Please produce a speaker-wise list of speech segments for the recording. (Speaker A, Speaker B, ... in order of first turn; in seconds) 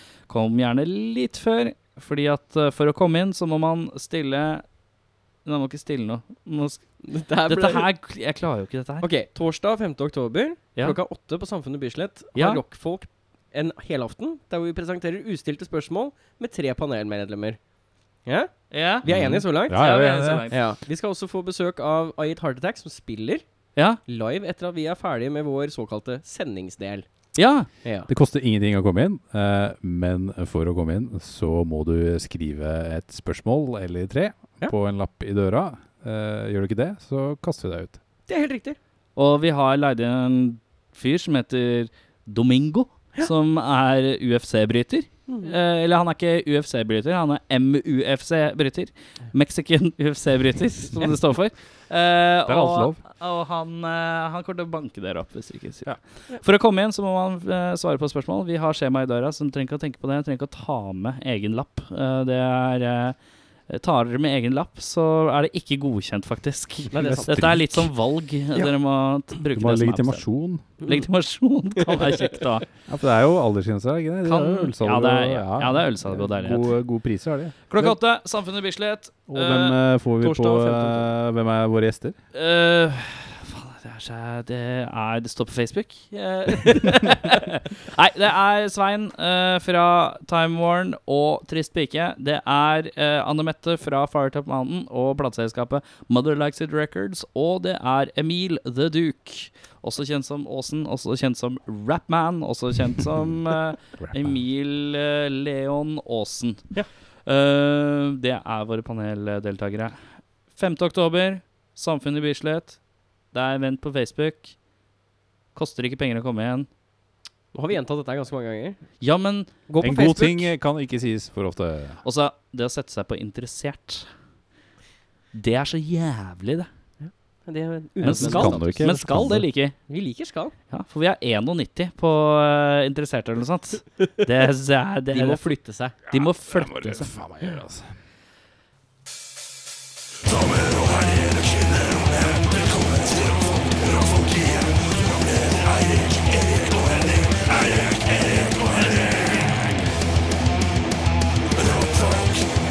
Speaker A: 0.3-4.6, 5.4-6.8, 7.4-9.1, 12.3-12.6, 18.7-20.6, 27.4-27.7, 39.1-63.1, 63.7-72.7, 74.2-76.7, 77.7-79.8, 82.3-106.7, 107.2-110.0, 110.5-112.8, 113.3-114.5, 115.5-116.7, 119.0-119.5, 122.0-124.1, 125.3-126.7, 128.0-129.8, 130.7-137.1
Speaker B: 7.0-7.8, 9.0-17.6, 18.2-19.8, 20.5-23.4, 24.0-27.1, 27.8-28.1, 38.3-38.8, 45.3-45.5, 66.9-67.6, 70.8-71.1, 80.2-81.1, 117.5-118.8, 119.7-120.5, 127.0-128.9, 129.9-130.5, 135.1-136.0
Speaker C: 19.0-20.5, 28.1-38.0, 52.5-53.0, 67.0-67.9, 69.5-70.6, 72.9-77.7, 79.3-82.2, 104.0-104.4, 119.8-122.0, 128.0-129.5, 136.1-137.9